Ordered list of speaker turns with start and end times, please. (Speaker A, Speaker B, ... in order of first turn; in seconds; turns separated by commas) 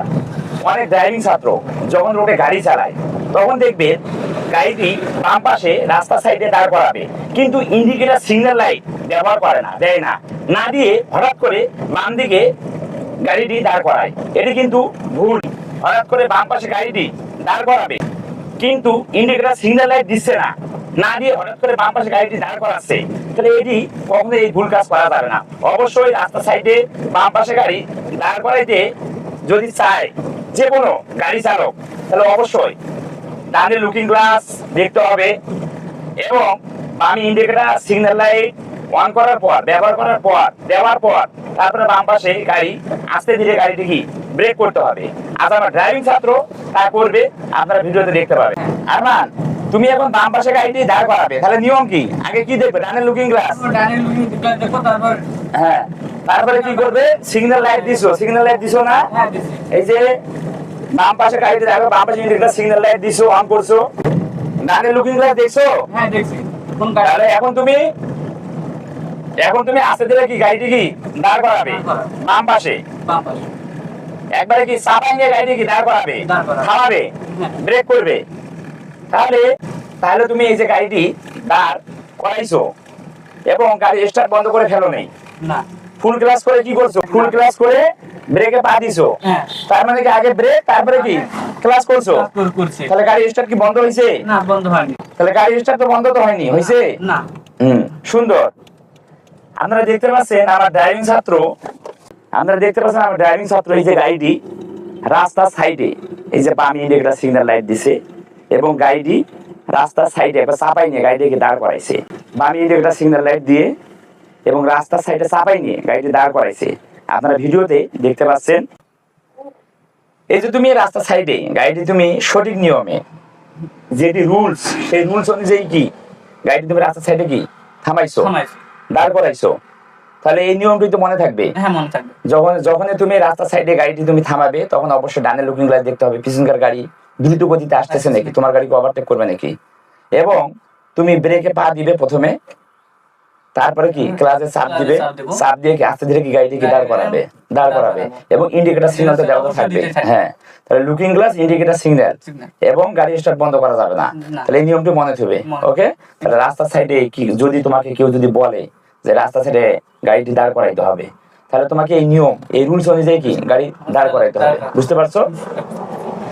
Speaker A: 0.6-4.0, Speaker A: 4.5-12.5, Speaker A: 13.2-18.0, Speaker A: 18.6-28.8, Speaker A: 29.4-32.8, Speaker A: 33.5-35.3, Speaker A: 36.2-53.7, Speaker B: 53.5-55.3, Speaker A: 55.5-59.1, Speaker B: 56.4-57.0, Speaker B: 57.7-58.1, Speaker B: 59.1-59.6, Speaker A: 59.7-60.0, Speaker A: 60.9-63.8, Speaker A: 64.6-65.7, Speaker B: 65.9-67.2, Speaker A: 67.0-67.8, Speaker A: 69.4-72.8, Speaker B: 71.6-72.2, Speaker B: 73.0-73.5, Speaker A: 74.4-78.2, Speaker B: 76.2-76.7, Speaker B: 77.3-77.6, Speaker A: 79.1-79.5, Speaker A: 80.0-82.7, Speaker A: 83.5-85.1, Speaker B: 85.4-85.7, Speaker A: 86.0-92.3, Speaker B: 87.0-87.4, Speaker B: 89.2-89.6, Speaker B: 90.9-91.3, Speaker B: 92.0-92.9, Speaker A: 92.8-94.2, Speaker B: 94.2-95.0, Speaker A: 95.2-96.9, Speaker B: 96.5-97.3, Speaker A: 97.6-98.5, Speaker A: 99.6-101.5, Speaker A: 102.4-104.4, Speaker A: 105.1-108.0, Speaker A: 108.5-109.2, Speaker A: 109.7-113.7, Speaker A: 114.5-118.6, Speaker A: 120.3-123.0, Speaker A: 124.0-125.9, Speaker A: 126.5-128.3, Speaker B: 128.2-128.6, Speaker A: 128.9-129.5, Speaker A: 130.2-131.5, Speaker B: 131.5-132.2, Speaker A: 132.3-139.5, Speaker B: 137.9-138.3, Speaker A: 140.2-142.3, Speaker A: 143.6-165.3, Speaker B: 144.0-145.4, Speaker B: 146.6-148.2, Speaker B: 148.9-150.1, Speaker B: 152.2-152.5, Speaker B: 154.2-154.5, Speaker B: 155.4-155.7, Speaker B: 163.8-165.7